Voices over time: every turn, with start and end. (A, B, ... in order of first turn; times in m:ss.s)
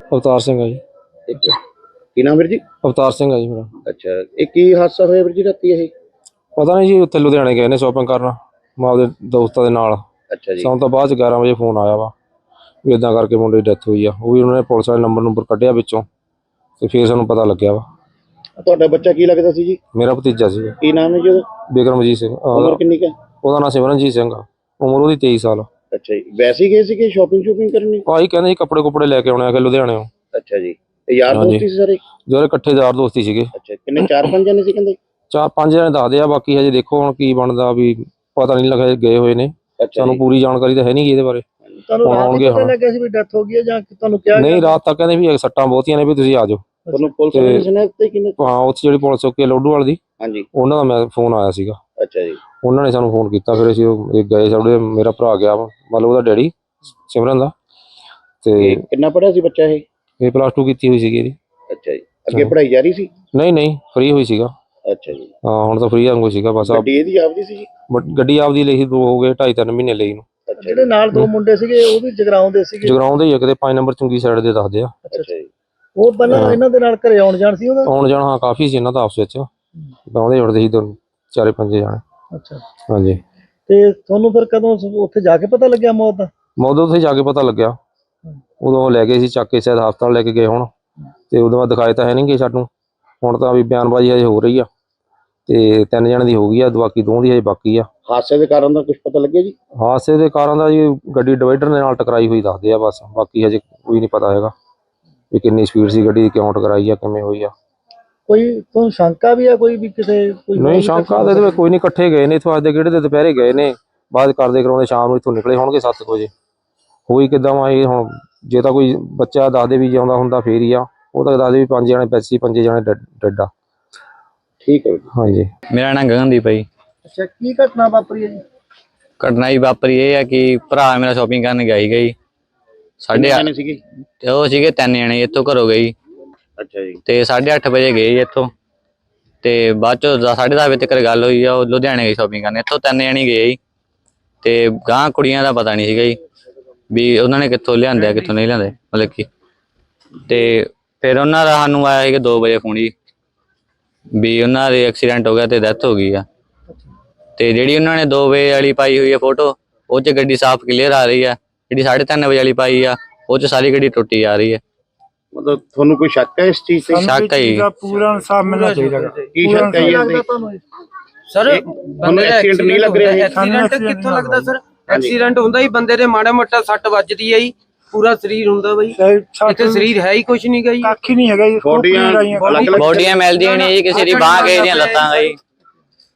0:00.1-0:00.8 A
0:01.3-0:01.6 B
0:02.2-0:02.6 B
0:02.8-0:03.7 A
0:03.9-0:05.9 B
0:06.6-0:10.0 A
0:10.3-0:10.7 B
0:10.6-0:12.1 A
0:12.8-0:16.0 A
0:16.8-0:17.8 A
0:18.6-0:19.8 B
0:19.9-0:20.8 A
0:20.8-0:21.4 B
0:21.7-0:22.8 A
0:22.5-0:23.1 B
0:23.4-0:25.7 A
0:25.9-0:28.0 B
0:28.1-0:30.1 A
0:30.3-0:32.0 B
0:31.3-0:31.7 A
0:32.3-0:33.5 A
0:33.6-0:35.0 B
0:35.3-0:41.4 A
0:39.8-0:40.2 B
0:41.9-0:44.8 C
0:42.0-0:42.8 A
0:44.3-0:46.6 A
0:46.9-0:47.1 C
0:46.9-0:48.4 B
0:47.3-0:47.7 A
0:48.4-0:50.0 A
0:50.2-0:50.5 B
0:50.5-0:51.8 A
0:52.0-0:52.4 B
0:52.6-0:56.5 A
0:57.1-0:57.5 A
0:58.4-0:58.8 A
0:58.6-0:59.8 B
1:00.2-1:01.4 A
1:01.7-1:03.1 B
1:03.3-1:04.5 A
1:04.9-1:05.3 B
1:05.4-1:06.9 A
1:06.6-1:07.7 B
1:07.9-1:10.2 A
1:10.5-1:10.9 B
1:10.6-1:13.0 C
1:12.8-1:15.0 A
1:15.1-1:15.5 B
1:16.0-1:17.9 C
1:16.3-1:16.6 A
1:17.8-1:19.5 A
1:20.1-1:22.0 A
1:22.3-1:22.6 C
1:22.9-1:23.2 A
1:23.7-1:26.3 C
1:26.6-1:27.8 A
1:28.6-1:30.7 A
1:31.3-1:32.7 A
1:33.2-1:34.7 A
1:35.5-1:37.9 A
1:38.1-1:39.6 B
1:39.8-1:44.5 A
1:45.3-1:47.5 A
1:48.3-1:51.6 C
1:50.6-1:56.3 A
1:57.1-2:03.5 A
2:04.6-2:05.1 B
2:05.1-2:05.5 A
2:05.7-2:06.6 D
2:07.0-2:08.4 C
2:09.2-2:12.1 D
2:13.0-2:13.4 D
2:13.1-2:13.8 B
2:14.2-2:15.9 D
2:16.6-2:17.0 B
2:17.1-2:18.5 D
2:19.4-2:23.6 D
2:24.4-2:26.2 D
2:26.9-2:29.3 D
2:30.3-2:32.9 D
2:34.2-2:36.2 D
2:37.4-2:44.6 D
2:45.3-2:47.1 B
2:46.9-2:49.9 E
2:47.0-2:47.7 D
2:48.4-2:49.4 F
2:49.4-2:50.2 B
2:49.6-2:50.6 C
2:51.3-2:59.0 F
2:51.4-2:53.3 B
2:53.2-2:54.5 E
2:54.9-2:55.1 B
2:59.0-2:59.9 E
2:59.5-3:00.9 F
3:00.8-3:02.8 E
3:01.6-3:03.1 B
3:02.4-3:05.4 F
3:02.7-3:05.4 D